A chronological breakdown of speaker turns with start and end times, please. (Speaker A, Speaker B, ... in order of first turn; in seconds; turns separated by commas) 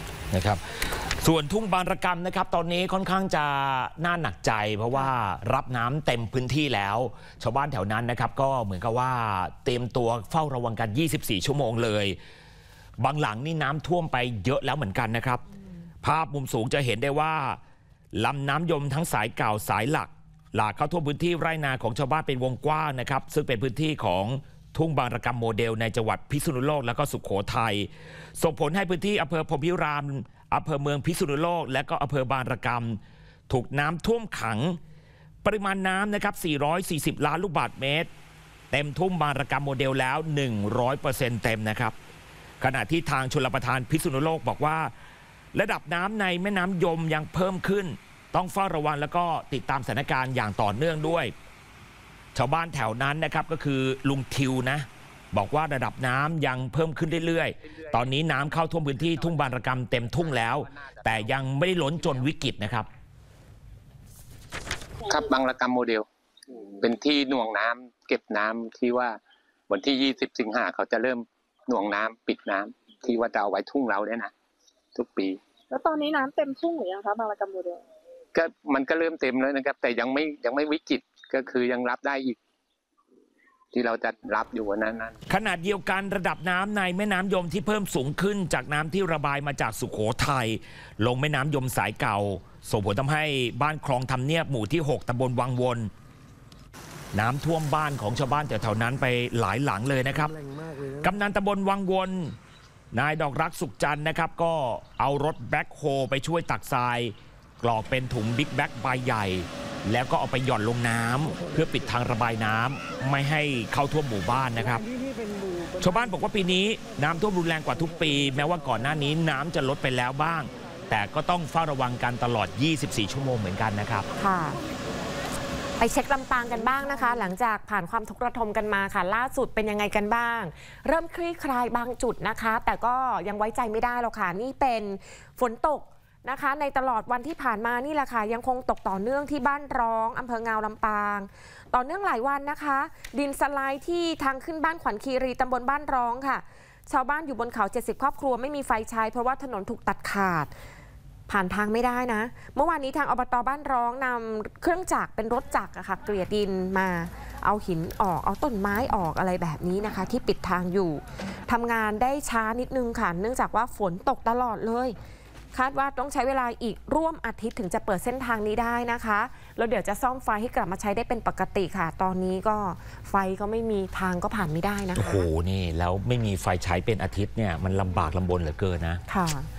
Speaker A: 0.3-12.2, Speaker A: 13.0-15.4, Speaker A: 16.0-17.6, Speaker A: 18.1-34.8, Speaker A: 35.4-38.1, Speaker A: 38.7-41.9, Speaker A: 42.6-44.9, Speaker A: 45.5-51.3, Speaker A: 52.3-62.9, Speaker B: 57.7-58.0, Speaker B: 59.2-59.4, Speaker B: 60.3-62.2, Speaker B: 65.0-69.2, Speaker B: 69.7-74.3, Speaker B: 74.9-75.4, Speaker C: 75.7-77.8, Speaker B: 78.3-82.4, Speaker B: 83.7-85.1, Speaker A: 85.3-95.9, Speaker A: 97.1-102.3, Speaker A: 102.9-114.8, Speaker A: 115.8-124.1, Speaker D: 124.2-124.6, Speaker D: 125.8-150.5, Speaker D: 151.3-164.9, Speaker D: 165.5-175.2, Speaker A: 174.9-179.0, Speaker D: 179.1-179.5